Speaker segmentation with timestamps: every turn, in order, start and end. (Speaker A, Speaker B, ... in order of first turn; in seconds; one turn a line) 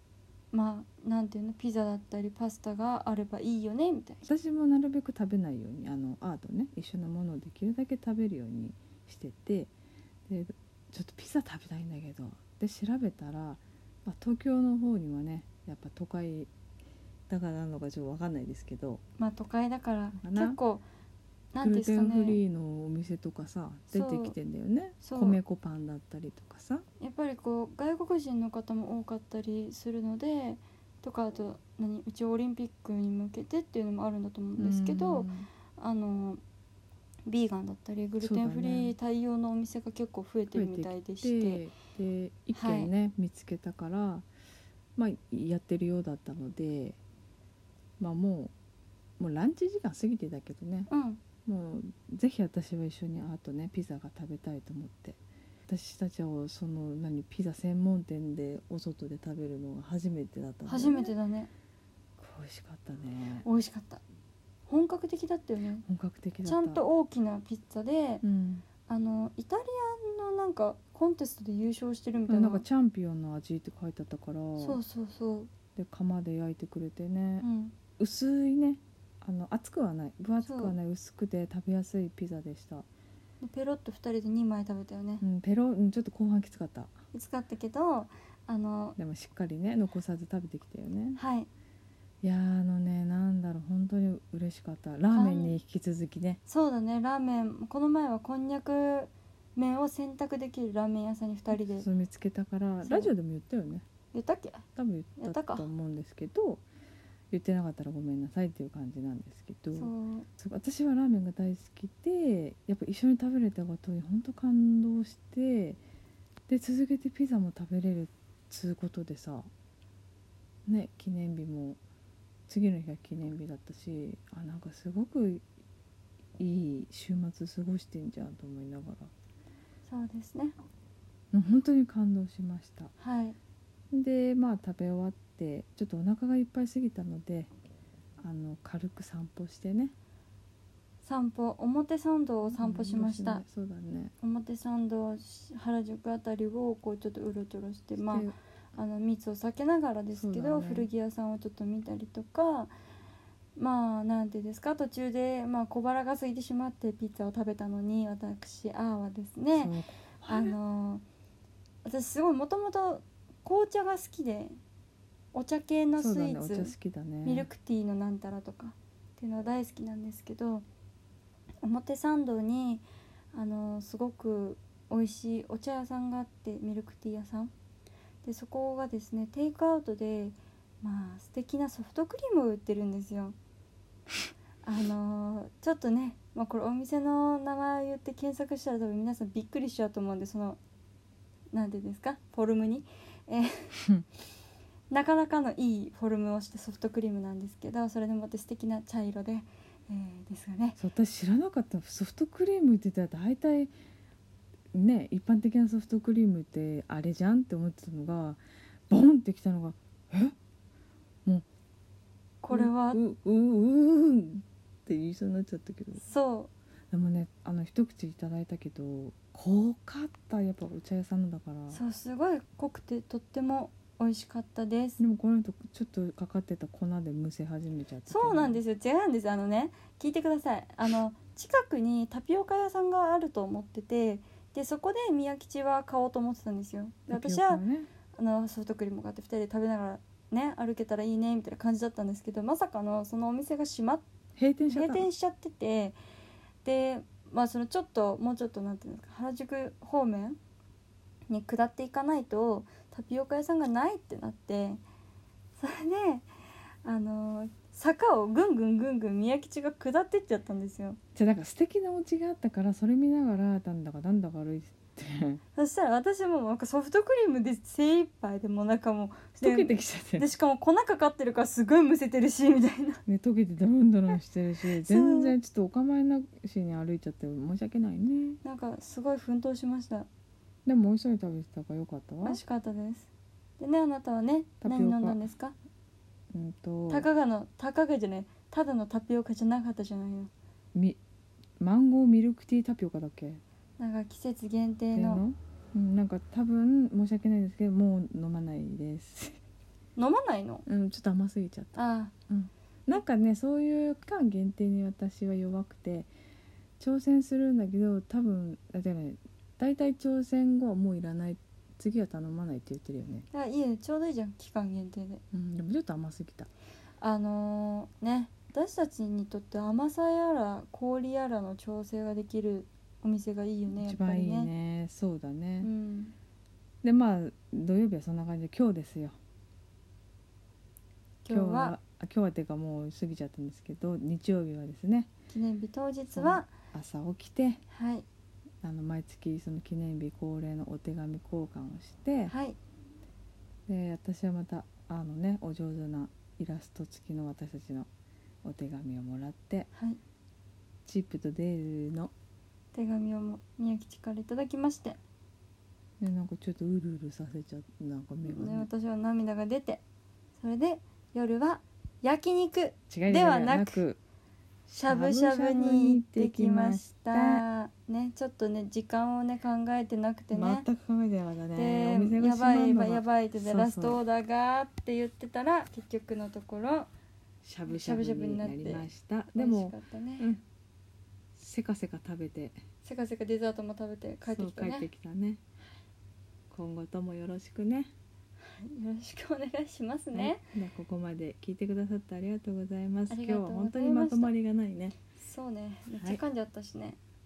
Speaker A: 0.5-4.3
Speaker B: 4.2-9.7
Speaker B: 10.3-16.5
Speaker B: 17.3-19.0
Speaker A: 19.2-20.8
Speaker B: 20.2-20.6
Speaker A: 21.5-22.4
Speaker B: 21.6-26.8
Speaker A: 23.9-24.3
Speaker A: 25.0-25.4
Speaker A: 27.0-36.4
Speaker B: 34.6-35.5
Speaker A: 37.2-41.6
Speaker B: 38.2-39.0
Speaker B: 40.5-44.2
Speaker A: 42.5-42.9
Speaker B: 45.0-47.0
Speaker B: 48.0-48.5
Speaker B: 49.2-50.9
Speaker A: 50.9-51.2
Speaker B: 51.4-61.1
Speaker A: 60.7-61.5
Speaker B: 62.2-63.5
Speaker A: 63.4-64.0
Speaker A: 64.7-65.8
Speaker B: 65.8-66.8
Speaker A: 66.4-68.2
Speaker B: 68.2-68.6
Speaker A: 68.9-72.6
Speaker B: 72.3-74.8
Speaker A: 74.6-75.5
Speaker B: 75.8-77.5
Speaker A: 77.4-77.7
Speaker B: 78.0-82.8
Speaker A: 80.4-80.7
Speaker A: 83.4-85.2
Speaker B: 85.2-86.9
Speaker A: 87.1-89.0
Speaker B: 89.0-91.2
Speaker A: 91.2-91.5
Speaker B: 92.2-96.4
Speaker A: 95.1-95.6
Speaker A: 96.5-101.8
Speaker B: 101.5-103.8
Speaker A: 102.8-103.1
Speaker A: 104.1-104.6
Speaker B: 104.8-106.6
Speaker A: 105.2-105.7
Speaker B: 107.3-115.8
Speaker A: 109.7-110.3
Speaker B: 116.5-119.5
Speaker B: 120.7-121.8
Speaker B: 122.5-125.4
Speaker B: 126.4-129.1
Speaker A: 129.8-130.6
Speaker B: 131.3-132.9
Speaker A: 133.0-133.4
Speaker B: 133.9-137.5
Speaker B: 138.2-139.9
Speaker A: 141.0-143.4
Speaker B: 142.5-144.1
Speaker A: 144.2-152.7
Speaker B: 148.0-148.3
Speaker B: 150.1-150.9
Speaker A: 153.6-159.7
Speaker B: 159.5-160.6
Speaker A: 160.3-161.0
Speaker A: 161.8-164.6
Speaker A: 165.3-166.7
Speaker B: 166.0-167.5
Speaker A: 167.2-170.6
Speaker A: 171.6-177.5
Speaker A: 178.2-183.3
Speaker A: 184.6-190.6
Speaker A: 191.5-193.8
Speaker B: 193.8-194.0
Speaker A: 194.9-200.8
Speaker B: 200.8-203.7
Speaker B: 204.7-210.3
Speaker A: 212.4-213.0
Speaker B: 212.5-216.0
Speaker A: 216.0-216.5
Speaker B: 216.9-221.8
Speaker A: 221.7-225.0
Speaker B: 225.0-228.6
Speaker A: 228.1-237.6
Speaker B: 237.1-237.9
Speaker A: 238.2-244.0
Speaker B: 244.3-245.1
Speaker A: 244.7-246.0
Speaker A: 246.6-250.4
Speaker A: 251.3-254.8
Speaker A: 255.6-256.3
Speaker A: 256.8-261.0
Speaker B: 261.1-265.4
Speaker A: 265.6-273.0
Speaker B: 269.4-270.3
Speaker B: 273.1-278.4
Speaker A: 274.6-275.3
Speaker A: 278.4-280.1
Speaker B: 280.6-282.4
Speaker A: 282.2-285.5
Speaker B: 284.6-285.2
Speaker B: 286.3-287.1
Speaker A: 286.9-290.3
Speaker B: 290.7-291.0
Speaker B: 291.6-293.4
Speaker A: 293.8-295.2
Speaker B: 294.9-299.4
Speaker A: 299.9-300.6
Speaker B: 300.6-306.1
Speaker A: 301.8-302.1
Speaker B: 306.8-313.3
Speaker A: 313.3-315.2
Speaker B: 315.3-316.5
Speaker A: 317.0-324.5
Speaker B: 323.7-325.7
Speaker A: 325.6-326.1
Speaker B: 326.8-329.1
Speaker A: 331.2-331.8
Speaker B: 331.3-335.1
Speaker A: 335.3-336.5
Speaker B: 336.1-337.6
Speaker A: 337.7-338.0
Speaker B: 338.6-342.3
Speaker A: 342.3-342.6
Speaker B: 343.7-347.9
Speaker B: 348.4-349.7
Speaker A: 349.7-350.0
Speaker B: 350.9-352.1
Speaker A: 352.7-355.0
Speaker B: 356.0-358.7
Speaker A: 358.2-359.8
Speaker A: 360.4-363.8
Speaker B: 362.9-364.0
Speaker B: 364.7-367.4
Speaker A: 364.8-370.6
Speaker B: 370.3-374.0
Speaker A: 371.5-376.9
Speaker B: 377.4-380.4
Speaker A: 377.7-380.3
Speaker B: 381.4-382.6
Speaker A: 382.8-384.9
Speaker B: 384.2-385.4
Speaker B: 386.5-387.9
Speaker A: 388.5-390.4
Speaker B: 390.1-394.9
Speaker A: 393.1-394.3
Speaker A: 395.1-397.0
Speaker B: 395.9-396.2